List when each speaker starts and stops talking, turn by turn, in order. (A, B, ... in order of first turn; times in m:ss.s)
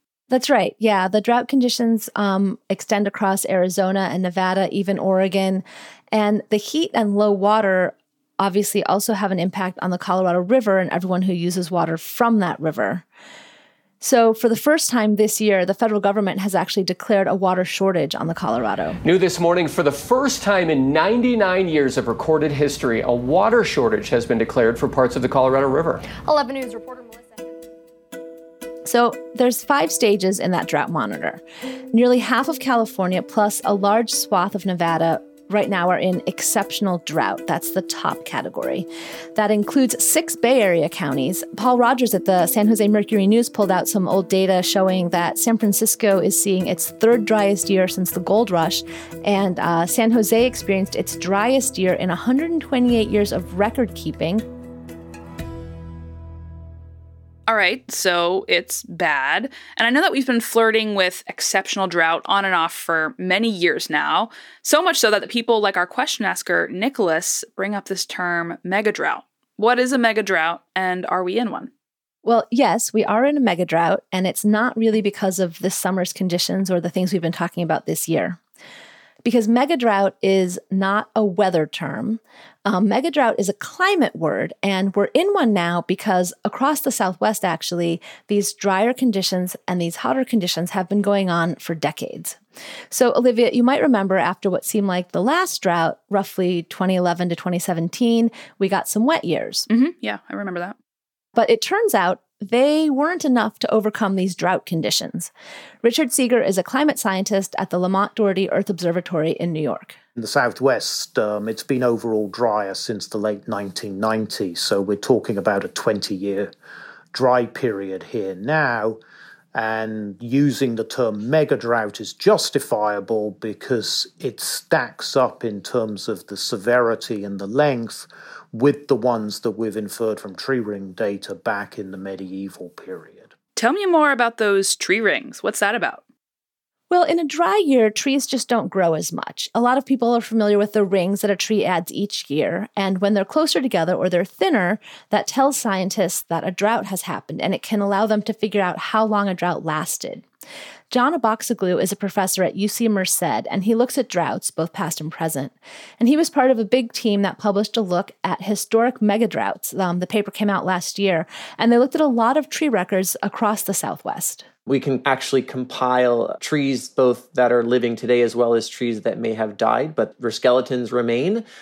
0:00.3-0:13.1 A
0:14.0-0:19.0 A
0:19.0-0:27.2 B
0:28.9-0:31.4 A
0:31.9-0:54.4 A
0:57.5-1:11.7 C
1:12.2-1:18.4 A
1:19.2-1:32.4 A
1:32.9-1:39.7 A
1:39.7-1:40.8 C
1:41.4-1:45.3 A
1:45.8-1:50.0 A
1:50.2-1:56.5 D
1:57.1-1:59.0 D
1:59.5-2:13.3 D
2:13.6-2:16.0 C
2:16.9-2:30.2 A
2:30.9-2:44.4 A
2:44.7-2:51.4 E